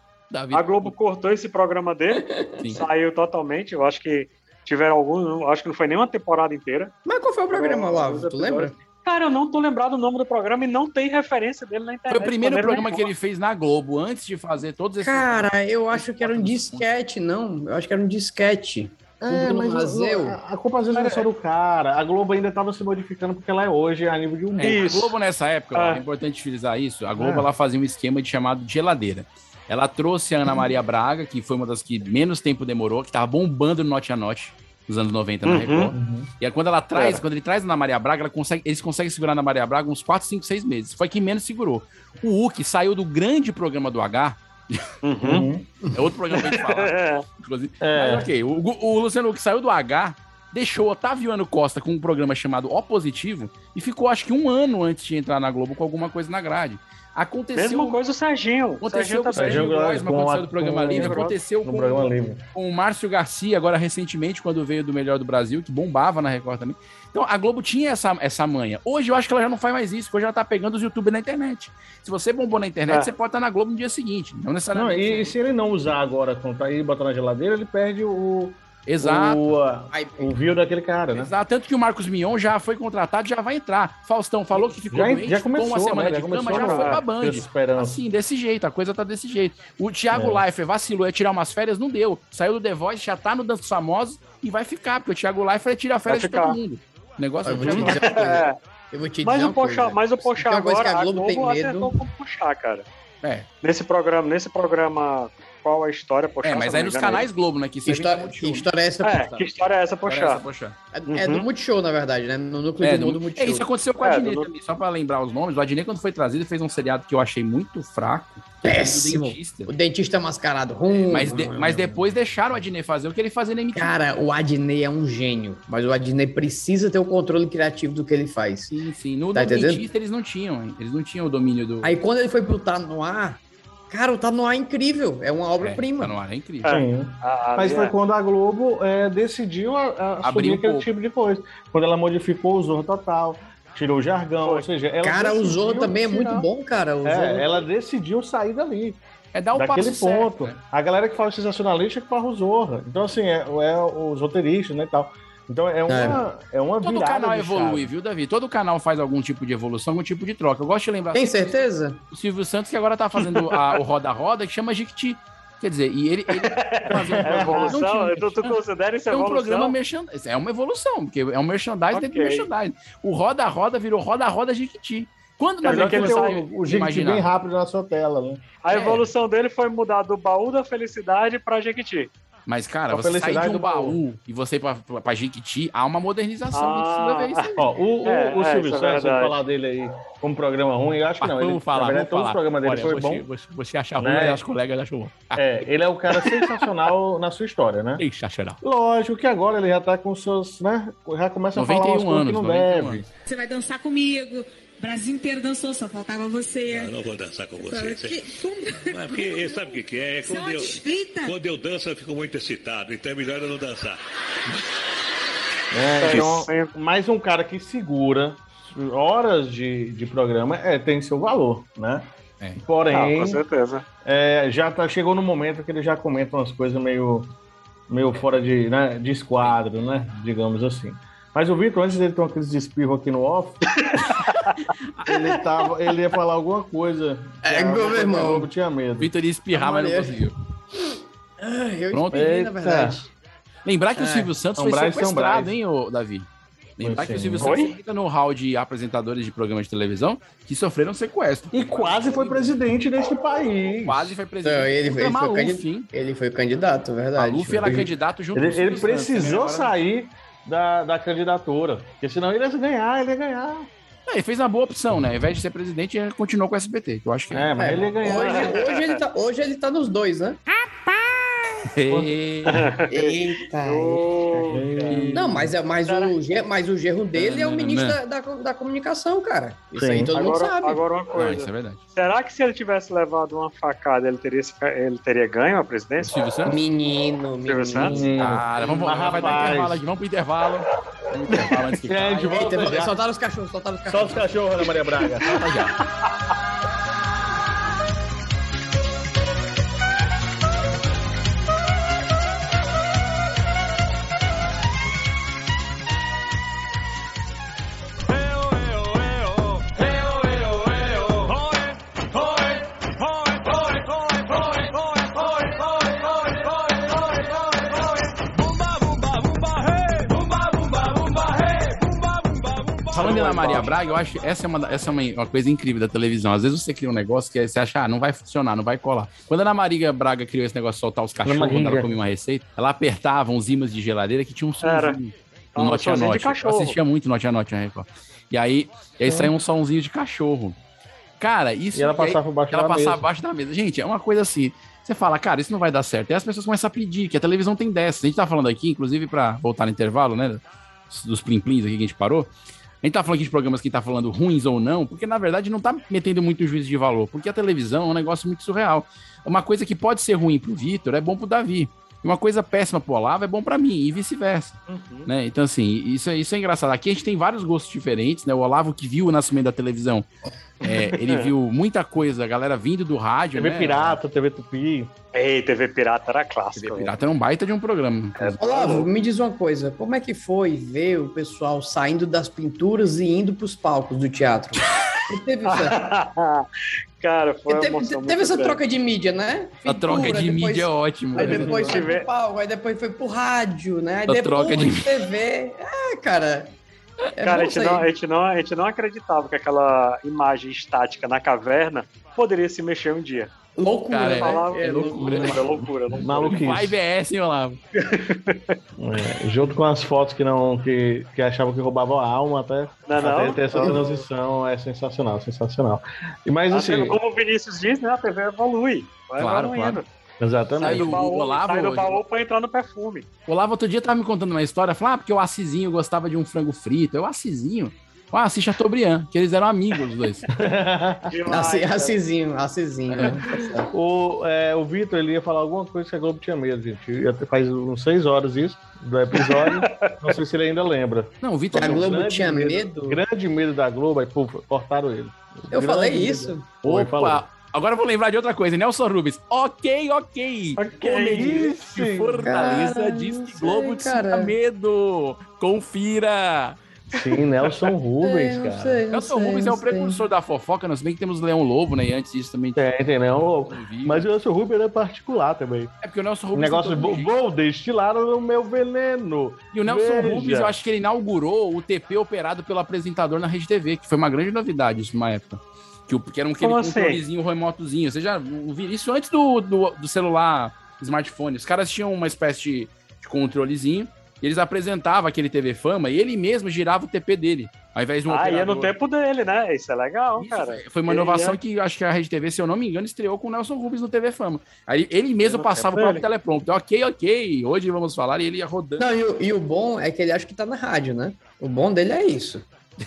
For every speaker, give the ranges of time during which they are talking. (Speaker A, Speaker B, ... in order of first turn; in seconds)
Speaker A: 0.3-0.9, 12.1-16.9, 24.6-44.8, 45.9-58.0, 58.8-75.3, 78.8-79.5, 81.1-98.2, 103.2-103.5, 106.4-109.4, 110.1-110.8, 112.8-119.7, 121.1-123.9, 128.7-131.9, 135.6-136.7, 140.2-140.9, 149.3-150.6, 156.8-161.6, 162.1-168.6, 169.1-177.3, 178.7-179.0, 182.5-187.5, 191.2-195.6, 198.0-198.6, 201.5-203.0, 239.0-240.3, 241.9-242.2, 243.6-252.6, 253.8-255.9, 257.1-259.7, 264.1-267.5, 271.7-272.6, 274.8-275.3, 277.1-278.0, 281.1-281.8, 286.0-286.6, 288.1-292.4, 295.4-295.7, 322.9-340.6, 341.2-352.3, 352.8-370.1, 370.6-374.0, 376.5-378.4, 389.6-391.6, 394.1-394.9, 403.9-405.4, 406.3-407.6, 419.2-419.8, 420.6-422.0, 423.3-430.2, 441.2-441.9, 446.6-456.6, 458.9-462.6, 463.5-464.1, 465.8-467.1, 469.5-488.7, 490.2-498.9
Speaker B: 0.5-2.2, 2.8-6.9, 7.5-13.1, 24.6-25.1, 25.7-26.0, 35.5-35.9, 45.0-45.5, 46.3-47.2, 57.5-59.7, 60.9-61.4, 86.5-87.0, 96.1-96.6, 97.6-98.5, 99.2-102.8, 103.6-107.3, 109.0-110.4, 111.1-111.5, 114.0-114.5, 136.6-137.9, 163.3-163.8, 166.4-169.8, 171.9-172.5, 175.6-176.4, 178.6-182.1, 186.5-189.4, 216.0-216.7, 222.9-223.8, 233.7-234.1, 247.4-247.7, 268.0-269.0, 272.5-275.0, 275.9-276.1, 280.1-286.1, 287.4-287.9, 334.6-335.0, 335.5-336.8, 364.7-365.1, 371.0-371.3, 375.1-376.9, 378.2-378.9, 385.4-386.4, 387.0-388.6, 391.2-392.1, 397.2-403.3, 404.2-406.4, 407.8-408.5, 412.9-413.9, 416.5-419.9, 420.6-423.1, 431.1-432.0, 439.2-439.9, 450.6-451.5, 476.4-477.0, 488.1-491.4, 495.2-496.0
Speaker C: 2.1-2.6, 7.0-8.7, 15.0-20.4, 79.9-80.3, 97.4-101.9, 107.8-109.3, 110.9-113.7, 118.6-122.0, 123.7-128.7, 129.3-129.8, 131.8-136.2, 145.0-147.7, 155.9-156.2, 161.1-162.0, 237.4-238.5, 239.5-243.1, 243.9-244.3, 254.4-257.9, 267.6-270.4, 272.9-274.4, 275.1-280.8, 286.4-288.3, 292.3-294.2, 378.4-385.8, 387.5-396.5, 397.1-397.9, 403.6-405.4, 413.5-413.8, 431.3-433.7, 441.5-443.0, 445.5-446.5, 452.2-454.3, 458.0-460.0, 498.8-502.4
Speaker D: 19.2-24.9, 27.1-27.5, 35.9-36.3, 45.2-45.6, 47.8-48.3, 59.3-62.4, 74.7-81.3, 84.5-88.0, 90.1-90.4, 136.7-146.5, 147.0-149.0, 149.5-157.9, 166.9-167.8, 175.6-178.6, 182.9-184.0, 187.6-193.2, 194.0-194.4, 195.3-198.0, 198.6-203.1, 215.7-222.1, 222.6-223.4, 224.0-227.3, 227.9-233.6, 235.0-239.1, 242.1-243.0, 244.6-245.5, 246.8-247.6, 251.5-254.1, 257.6-263.7, 267.3-268.6, 271.9-272.7, 274.5-275.5, 279.8-280.1, 287.8-289.8, 291.9-292.9, 293.9-295.5, 322.9-323.8, 331.2-332.0, 339.0-339.3, 341.7-343.0, 373.3-374.9, 405.9-406.8, 408.8-417.0, 420.2-421.0, 430.3-431.1, 433.7-447.2, 451.1-452.7, 456.9-458.8, 462.6-465.7, 466.3-470.6
Speaker E: 203.2-206.9, 207.6-211.3
Speaker F: 206.7-208.2, 208.9-214.0